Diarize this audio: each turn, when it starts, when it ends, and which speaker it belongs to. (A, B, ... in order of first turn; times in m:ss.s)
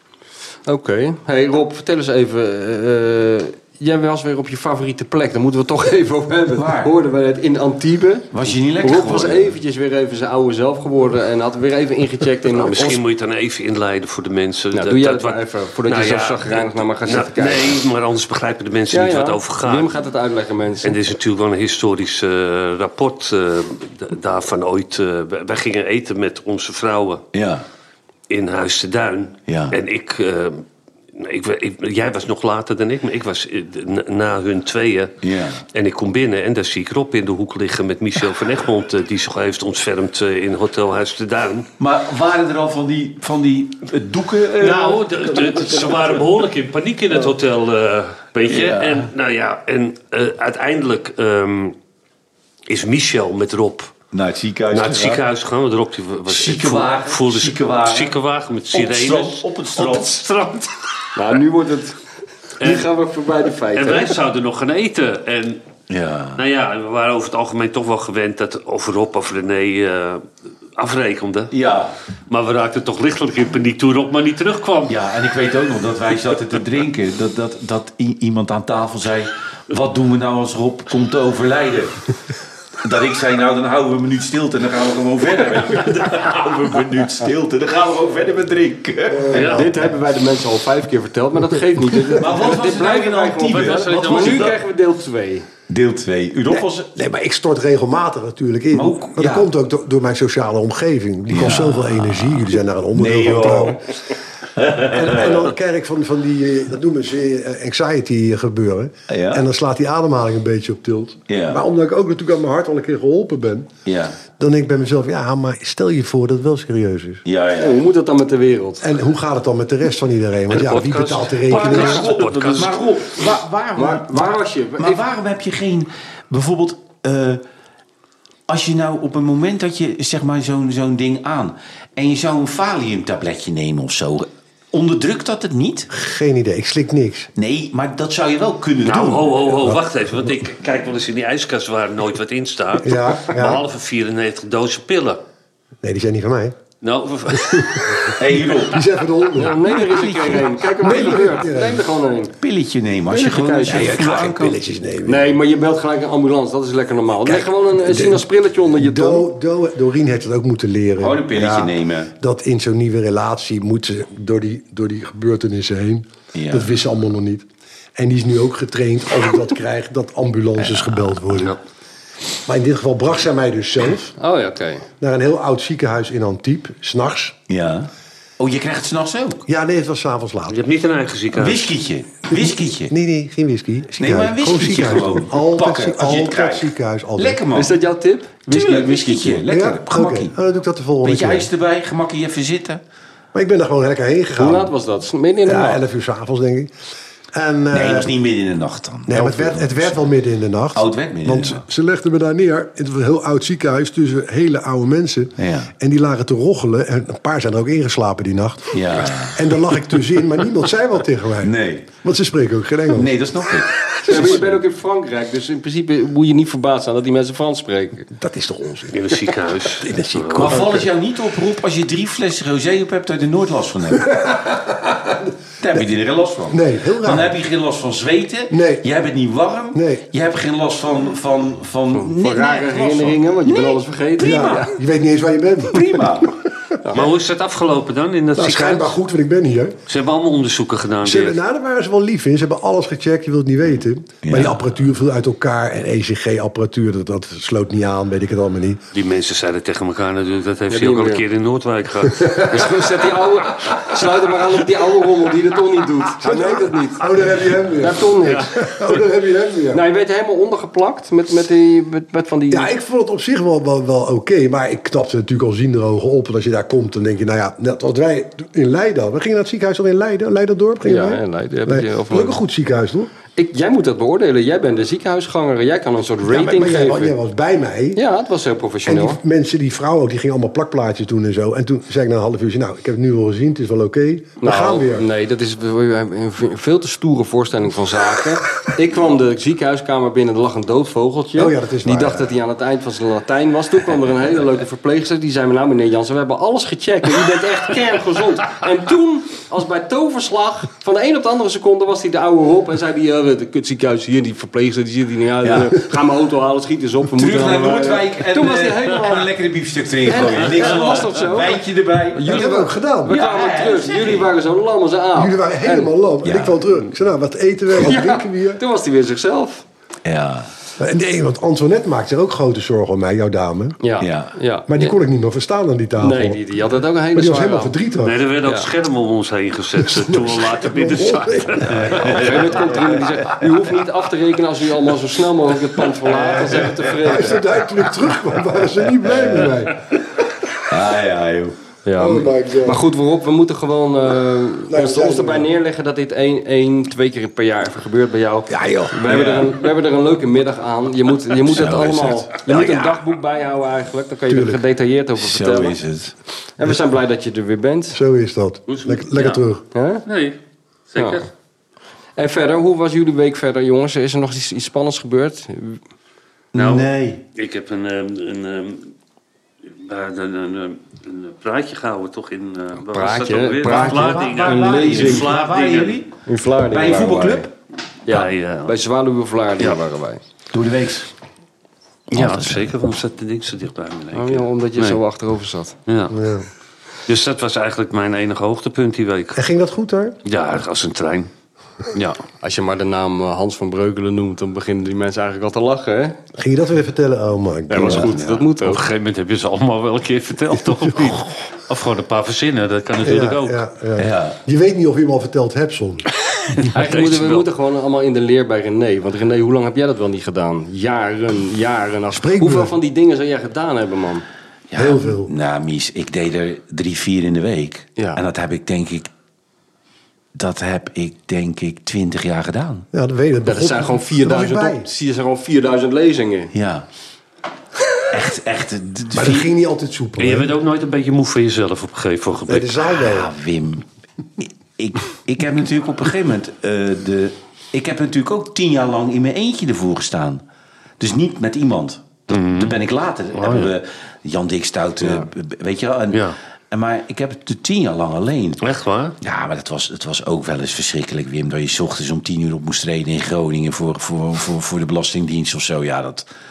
0:00.7-0:13.0 A
0:06.6-0:06.9 B
0:08.3-0:09.6 B
0:12.6-0:19.9 C
0:14.7-0:17.8 A
0:18.9-0:21.0 A
0:20.8-0:27.2 C
0:27.3-0:27.6 B
0:28.3-0:35.2 C
0:29.5-0:29.8 B
0:35.2-0:35.6 B
0:35.7-0:41.7 C
0:41.8-0:45.8 B
0:44.6-0:51.8 C
0:48.5-0:49.1 B
0:52.7-0:53.9 C
0:54.1-0:55.2 B
0:54.7-1:01.1 C
0:56.3-0:58.2 B
0:58.7-1:00.2 B
1:01.2-1:02.0 A
1:02.6-1:04.2 A
1:02.6-1:02.9 C
1:03.8-1:05.6 C
1:05.9-1:06.4 B
1:06.4-1:11.5 C
1:11.5-1:12.0 B
1:12.3-1:15.0 C
1:14.9-1:22.1 B
1:22.8-1:29.6 B
1:29.1-1:29.7 D
1:29.3-1:29.7 C
1:29.5-1:35.5 A
1:32.2-1:34.6 B
1:33.5-1:34.6 C
1:35.7-1:36.9 B
1:36.5-1:43.8 D
1:38.7-1:39.5 B
1:41.3-1:43.8 B
1:44.6-1:45.5 B
1:44.7-1:53.7 D
1:49.1-1:49.4 B
1:51.3-1:51.6 B
1:53.9-1:54.2 B
1:54.4-1:57.2 D
1:57.2-1:57.8 B
1:57.6-1:58.9 A
1:58.8-2:02.1 D
2:00.5-2:03.2 C
2:01.5-2:07.4 B
2:03.8-2:05.0 A
2:08.5-2:15.9 B
2:15.9-2:17.3 D
2:17.4-2:19.4 B
2:18.8-2:25.2 C
2:19.5-2:20.3 D
2:22.8-2:23.6 D
2:25.8-2:26.6 D
2:26.8-2:28.2 C
2:27.8-2:29.6 D
2:28.2-2:28.8 B
2:29.4-2:32.4 A
2:29.6-2:31.4 B
2:30.8-2:31.9 D
2:32.4-2:34.6 B
2:33.1-2:34.0 A
2:33.6-2:35.3 D
2:35.0-2:39.3 A
2:37.2-2:51.6 D
2:41.0-2:42.1 B
2:46.3-2:46.7 B
2:50.6-2:51.2 B
2:52.5-2:54.2 D
2:54.2-2:54.9 A
2:55.0-2:57.4 D
2:57.5-2:59.4 B
2:59.5-3:00.6 D
3:00.5-3:01.8 C
3:01.3-3:02.9 B
3:02.3-3:07.4 D
3:03.9-3:07.8 B
3:07.5-3:09.4 A
3:08.5-3:10.3 B
3:09.5-3:11.5 D
3:11.0-3:12.8 B
3:13.3-3:14.7 D
3:14.4-3:15.8 A
3:15.4-3:16.7 D
3:17.3-3:18.1 D
3:17.7-3:20.1 B
3:19.1-3:33.1 D
3:20.8-3:21.6 B
3:25.4-3:25.7 B
3:28.7-3:29.5 B
3:31.4-3:31.9 B
3:32.9-3:34.5 B
3:34.0-3:34.5 D
3:34.1-3:38.1 A
3:38.1-3:40.9 D
3:38.9-3:40.7 C
3:40.4-3:44.2 B
3:44.0-3:45.8 D
3:45.6-3:54.7 B
3:46.5-3:47.4 D
3:48.5-3:48.8 D
3:49.7-3:50.1 D
3:51.9-3:54.8 A
3:54.2-3:56.3 D
3:55.7-3:56.3 B
3:56.9-3:59.0 C
3:58.4-3:59.8 D
3:59.9-4:01.4 C
4:01.0-4:08.8 D
4:04.2-4:04.6 B
4:08.9-4:13.0 C
4:10.7-4:11.2 A
4:12.3-4:17.1 A
4:16.2-4:19.8 D
4:17.8-4:18.7 A
4:19.7-4:22.7 A
4:22.5-4:33.1 D
4:30.8-4:32.4 A
4:33.4-4:37.1 A
4:36.3-4:38.0 D
4:38.0-4:39.2 A
4:38.8-4:45.1 D
4:44.4-5:09.3 A
4:51.4-4:52.4 D
5:05.4-5:05.8 B
5:07.1-5:12.5 B
5:10.0-5:15.9 A
5:12.3-5:13.2 D
5:13.1-5:14.3 B
5:15.2-5:18.6 D
5:16.2-5:16.6 B
5:17.7-5:19.6 A
5:20.0-5:20.5 B
5:20.8-5:23.8 D
5:23.8-5:25.0 A
5:24.0-5:24.3 B
5:24.7-5:26.4 D
5:26.0-5:27.8 A
5:27.1-5:28.2 D
5:28.0-5:32.2 C
5:28.4-5:28.7 A
5:29.8-5:32.2 D
5:31.7-5:33.4 B
5:32.0-5:37.4 A
5:36.1-5:36.9 B
5:37.0-5:40.0 D
5:39.1-5:39.5 B
5:40.7-5:41.6 B
5:41.8-5:55.8 A
5:42.0-5:42.8 D
5:44.7-5:45.5 D
5:48.5-5:48.9 D
5:49.0-5:49.6 B
5:51.4-5:53.0 B
5:54.3-5:54.6 D
5:55.2-5:56.1 B
5:56.6-5:58.0 A
5:57.9-5:59.6 D
5:58.7-5:59.4 C
5:59.7-6:00.0 A
6:00.1-6:00.4 C
6:00.9-6:01.3 C
6:01.0-6:01.3 A
6:02.2-6:05.8 A
6:06.5-6:07.2 B
6:06.6-6:08.9 C
6:09.7-6:16.0 C
6:12.9-6:15.4 A
6:13.6-6:16.1 B
6:16.3-6:17.5 A
6:16.6-6:17.5 B
6:18.1-6:20.2 A
6:18.1-6:18.7 C
6:20.5-6:21.1 B
6:22.1-6:22.7 B
6:22.1-6:25.0 C
6:24.1-6:25.8 A
6:25.9-6:26.2 C
6:26.1-6:26.5 D
6:27.1-6:29.4 C
6:29.4-6:30.2 D
6:30.2-6:31.3 C
6:31.9-6:32.2 C
6:32.4-6:36.2 A
6:36.3-6:38.1 D
6:37.7-6:38.8 A
6:37.8-6:38.5 B
6:38.6-6:43.6 C
6:43.0-6:46.1 D
6:44.0-6:44.4 B
6:46.3-6:47.5 C
6:46.6-6:54.2 A
6:52.1-6:52.8 D
6:54.7-6:59.1 B
6:54.8-6:55.3 D
6:58.0-6:58.2 A
7:00.4-7:02.9 B
7:02.9-7:04.9 D
7:03.4-7:06.5 A
7:06.5-7:06.9 B
7:08.1-7:09.5 B
7:09.1-7:10.5 D
7:10.2-7:12.9 C
7:12.5-7:13.3 D
7:13.0-7:13.8 B
7:14.4-7:20.4 B
7:21.0-7:28.6 B
7:22.3-7:22.8 C
7:23.3-7:23.7 C
7:26.1-7:26.4 C
7:28.6-7:29.2 C
7:29.2-7:36.3 B